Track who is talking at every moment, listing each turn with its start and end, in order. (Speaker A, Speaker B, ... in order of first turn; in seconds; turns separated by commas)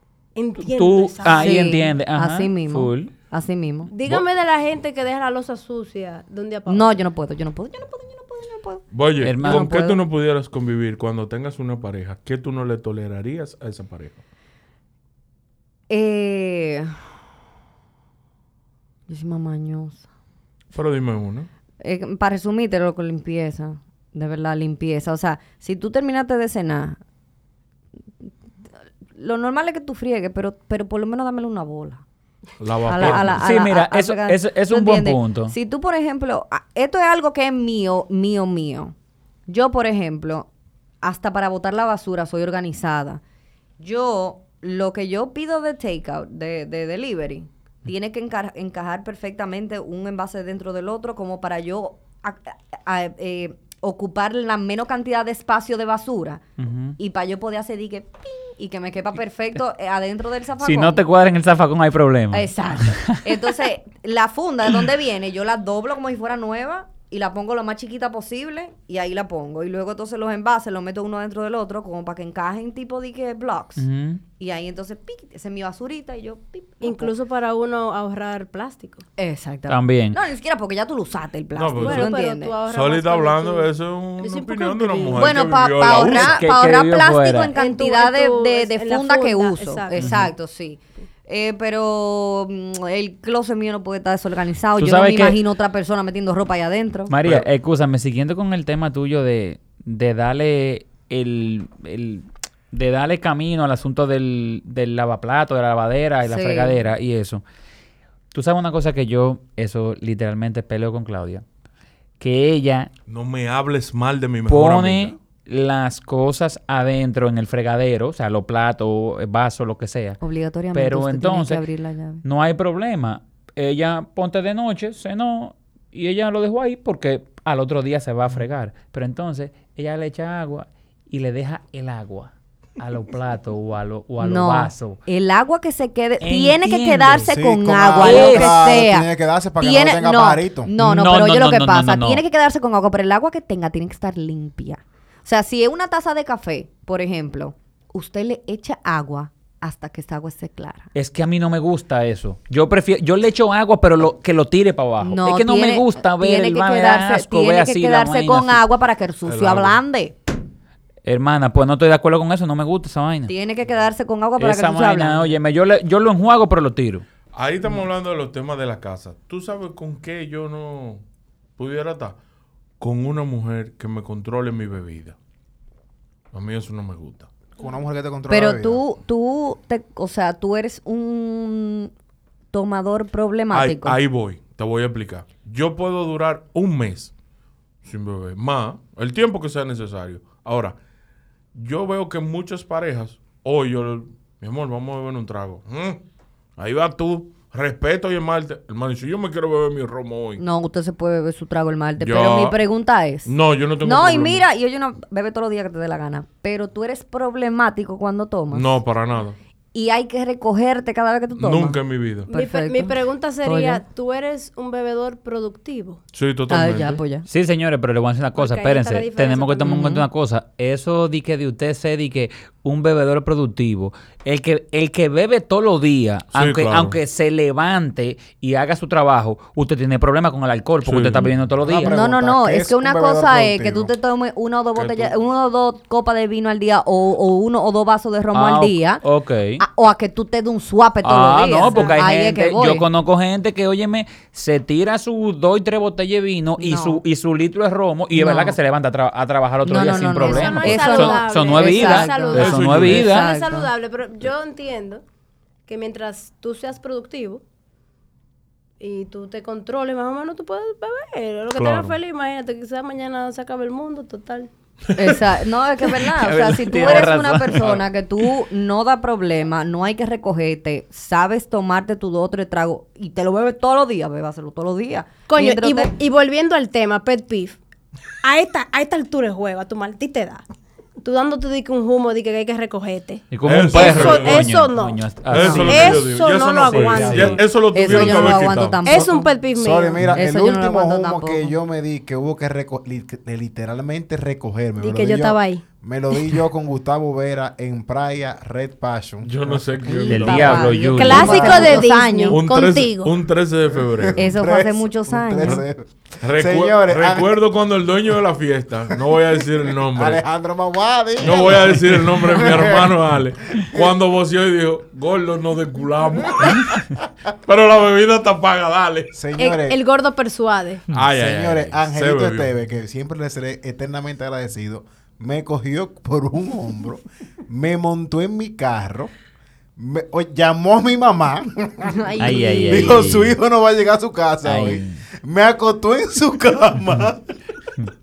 Speaker A: 0.3-1.8, Speaker B: 0.6-3.1, Speaker C: 1.3-3.9, Speaker A: 3.9-7.0, Speaker C: 6.7-8.8, Speaker D: 8.9-14.2, Speaker B: 9.2-9.7, Speaker C: 9.4-10.0, Speaker C: 15.9-16.9, Speaker C: 19.1-20.0, Speaker D: 20.7-21.5, Speaker C: 21.8-27.0, Speaker C: 29.1-32.0, Speaker D: 32.6-33.5, Speaker C: 32.8-38.9, Speaker B: 33.0-35.5, Speaker C: 39.5-40.5, Speaker C: 41.0-43.2, Speaker C: 43.8-56.4, Speaker B: 56.6-57.0, Speaker C: 57.0-61.0, Speaker B: 60.6-63.1, Speaker C: 62.3-73.8, Speaker B: 73.8-74.2, Speaker C: 74.4-77.1, Speaker A: 76.8-79.0, Speaker C: 79.2-82.6, Speaker B: 79.7-80.2, Speaker D: 81.5-82.1, Speaker A: 81.8-85.3, Speaker D: 82.7-86.5, Speaker C: 85.2-97.1, Speaker B: 86.1-87.5, Speaker A: 87.5-90.1, Speaker B: 90.0-90.3, Speaker B: 94.8-95.4, Speaker B: 97.1-107.4, Speaker C: 106.2-106.8, Speaker B: 108.3-111.4, Speaker B: 112.2-112.9, Speaker D: 113.1-115.2, Speaker B: 114.5-120.2, Speaker C: 120.2-122.2, Speaker B: 120.7-121.6, Speaker B: 122.2-135.0, Speaker C: 134.2-139.1, Speaker B: 136.2-137.3, Speaker E: 137.3-140.7, Speaker B: 138.0-138.7, Speaker C: 139.6-150.9, Speaker B: 140.8-142.2, Speaker B: 150.9-158.6, Speaker C: 155.0-160.2, Speaker D: 159.2-159.8, Speaker B: 161.0-163.3, Speaker C: 163.3-165.4, Speaker B: 164.4-167.0, Speaker D: 167.3-171.0, Speaker D: 171.6-172.2, Speaker D: 172.8-175.2, Speaker D: 176.3-177.3, Speaker E: 177.6-178.8, Speaker C: 178.3-181.9, Speaker C: 182.5-184.0, Speaker D: 183.5-187.1, Speaker D: 187.8-190.8, Speaker D: 191.5-196.0, Speaker D: 196.6-200.4, Speaker C: 200.4-208.8, Speaker D: 202.0-202.6, Speaker D: 203.2-204.4, Speaker D: 208.5-209.3, Speaker C: 209.7-213.8, Speaker D: 211.3-212.3, Speaker A: 212.3-216.0, Speaker D: 216.1-217.0, Speaker C: 216.5-217.2, Speaker B: 217.2-231.9, Speaker A: 218.4-219.8, Speaker C: 219.6-220.1, Speaker D: 226.3-227.0, Speaker D: 230.8-231.3, Speaker E: 231.6-233.9, Speaker C: 231.8-239.0, Speaker D: 234.7-235.1, Speaker B: 238.3-239.6, Speaker C: 239.6-242.8, Speaker B: 241.0-253.3, Speaker A: 241.7-241.9, Speaker C: 246.6-247.0, Speaker C: 248.1-248.6, Speaker C: 249.6-253.7, Speaker A: 250.2-255.0, Speaker D: 252.3-253.1, Speaker A: 255.7-257.4, Speaker A: 258.8-264.5, Speaker D: 261.5-261.9, Speaker D: 264.9-265.2, Speaker C: 264.9-275.9, Speaker B: 266.1-267.7, Speaker A: 275.3-277.6, Speaker A: 278.2-280.4, Speaker A: 281.0-287.4, Speaker B: 283.3-286.0, Speaker D: 283.4-284.6, Speaker D: 285.2-289.1, Speaker B: 286.7-287.3, Speaker E: 286.8-287.4, Speaker C: 287.7-289.3, Speaker A: 288.8-290.0, Speaker E: 289.6-299.7, Speaker C: 290.1-291.5, Speaker A: 294.8-296.3, Speaker D: 299.2-300.8, Speaker C: 299.9-302.4, Speaker B: 300.1-301.7, Speaker A: 300.9-303.1, Speaker D: 302.3-304.3, Speaker E: 303.9-307.3, Speaker C: 304.1-305.6, Speaker D: 306.2-310.2, Speaker E: 309.9-313.0, Speaker D: 311.2-316.9, Speaker D: 317.4-319.1, Speaker E: 319.1-319.8, Speaker A: 319.4-320.8, Speaker D: 320.9-322.5, Speaker E: 321.1-329.1, Speaker E: 329.8-337.3, Speaker C: 331.9-333.0, Speaker B: 332.2-333.4, Speaker B: 334.4-335.0